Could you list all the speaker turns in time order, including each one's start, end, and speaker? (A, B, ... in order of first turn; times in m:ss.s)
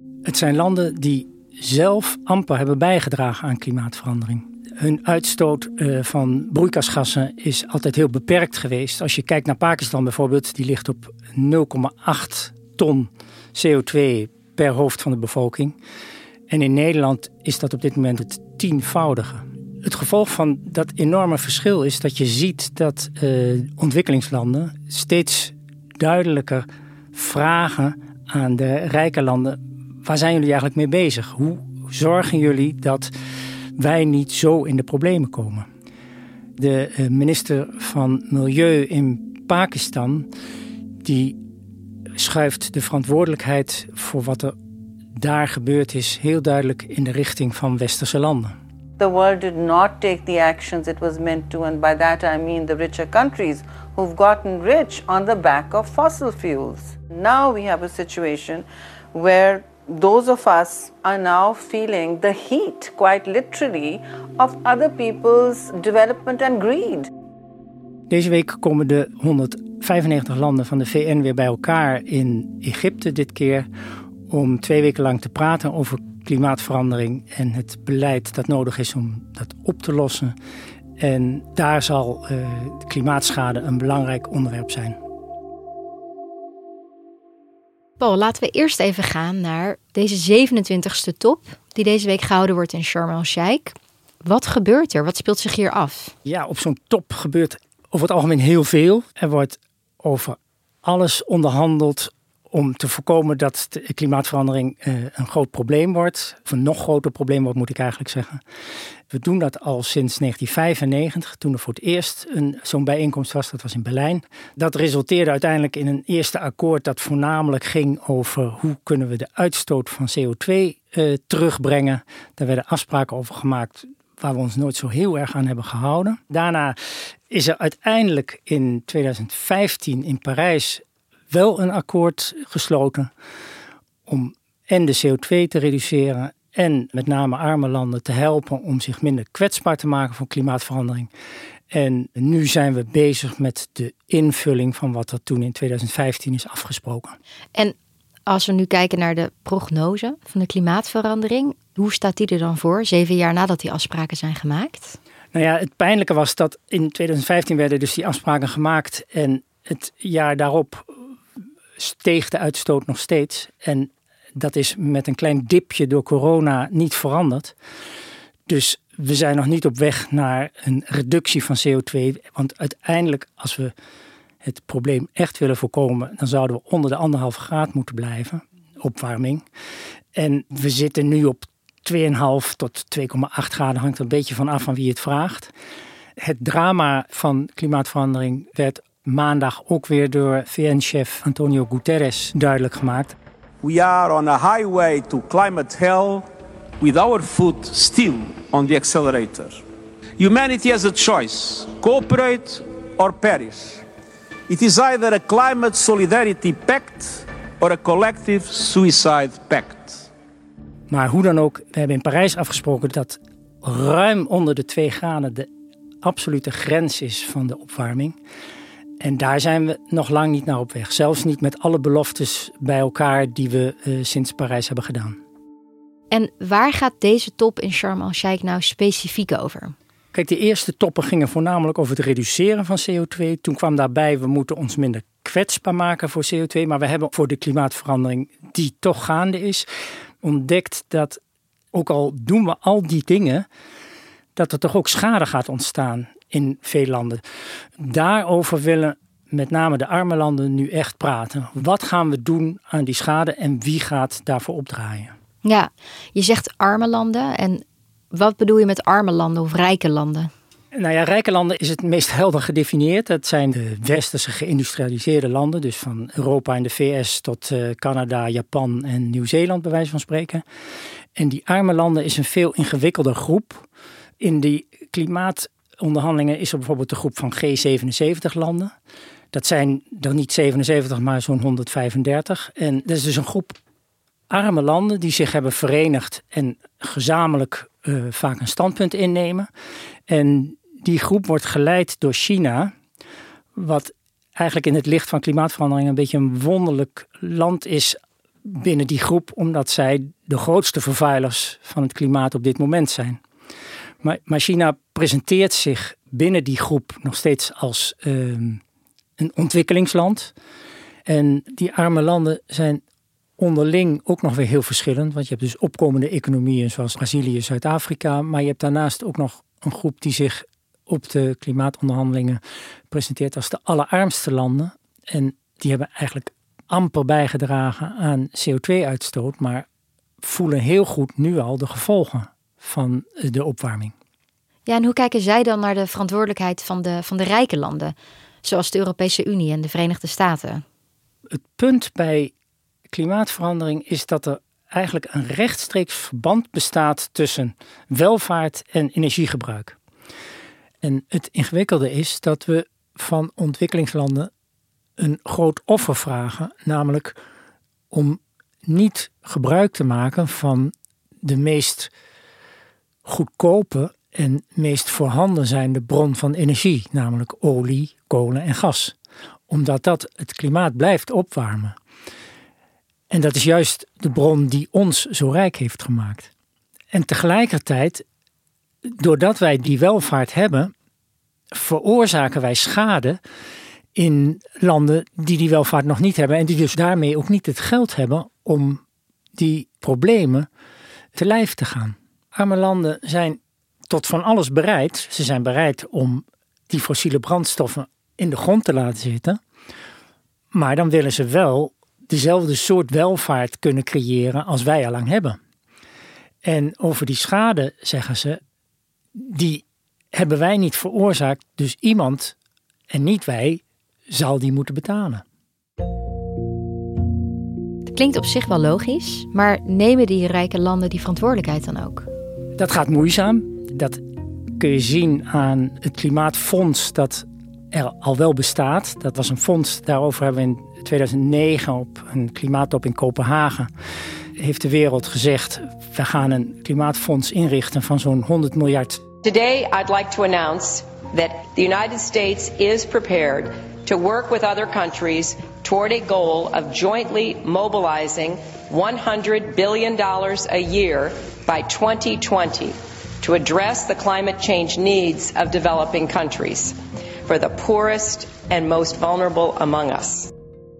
0:00.2-0:15.8 A
0:16.5-0:33.1 A
0:33.8-0:35.7 A
0:36.6-0:40.3 A
0:41.0-0:41.4 A
0:42.2-0:44.5 A
0:45.2-0:48.5 A
0:49.0-1:07.1 B
1:08.1-1:13.7 A
1:14.3-1:20.3 A
1:21.0-1:25.0 A
1:28.0-1:36.1 C
1:36.2-1:48.4 A
1:49.1-2:06.8 A
2:07.3-2:13.1 A
2:14.1-2:21.1 A
2:21.7-2:27.2 A
2:28.2-2:35.0 C
2:35.3-2:41.0 A
2:41.8-2:47.6 A
2:48.5-2:53.7 A
2:54.4-2:59.4 A
3:00.1-3:05.5 A
3:06.2-3:13.2 A
3:13.6-3:16.2 D
3:16.8-3:19.5 D
3:20.2-3:23.8 D
3:24.5-3:30.0 D
3:30.9-3:35.5 A
3:36.0-3:38.2 A
3:39.0-3:45.2 A
3:46.1-3:49.8 C
3:50.1-3:59.7 A
4:00.2-4:01.2 A
4:01.7-4:03.5 A
4:04.4-4:07.2 A
4:07.8-4:15.1 A
4:15.4-4:20.3 C
4:20.7-4:30.4 A
4:31.2-4:33.6 A
4:34.2-4:38.7 A
4:39.3-4:43.6 A
4:44.3-4:49.5 A
4:50.1-4:52.7 A
4:53.6-5:03.2 A
5:04.0-5:08.6 A
5:09.2-5:10.3 A
5:11.1-5:12.8 A
5:13.4-5:29.6 A
5:30.2-5:33.9 A
5:34.6-5:40.6 C
5:41.3-5:42.3 A
5:42.9-5:49.8 A
5:50.8-5:54.3 A
5:55.0-5:57.2 A
5:57.9-6:00.7 A
6:01.2-6:01.9 A
6:03.1-6:08.9 A
6:09.5-6:11.7 A
6:13.1-6:16.3 A
6:16.9-6:18.0 A
6:18.8-6:20.7 A
6:21.5-6:23.2 A
6:24.0-6:28.8 A
6:29.3-6:30.5 A
6:31.2-6:39.4 A
6:40.5-6:45.4 A
6:46.4-6:48.4 A
6:49.2-6:52.4 A
6:52.9-6:55.2 A
6:57.9-7:02.1 C
7:02.6-7:04.0 A
7:04.6-7:13.7 A
7:14.4-7:19.0 A
7:19.2-7:36.7 E
7:37.3-7:40.3 E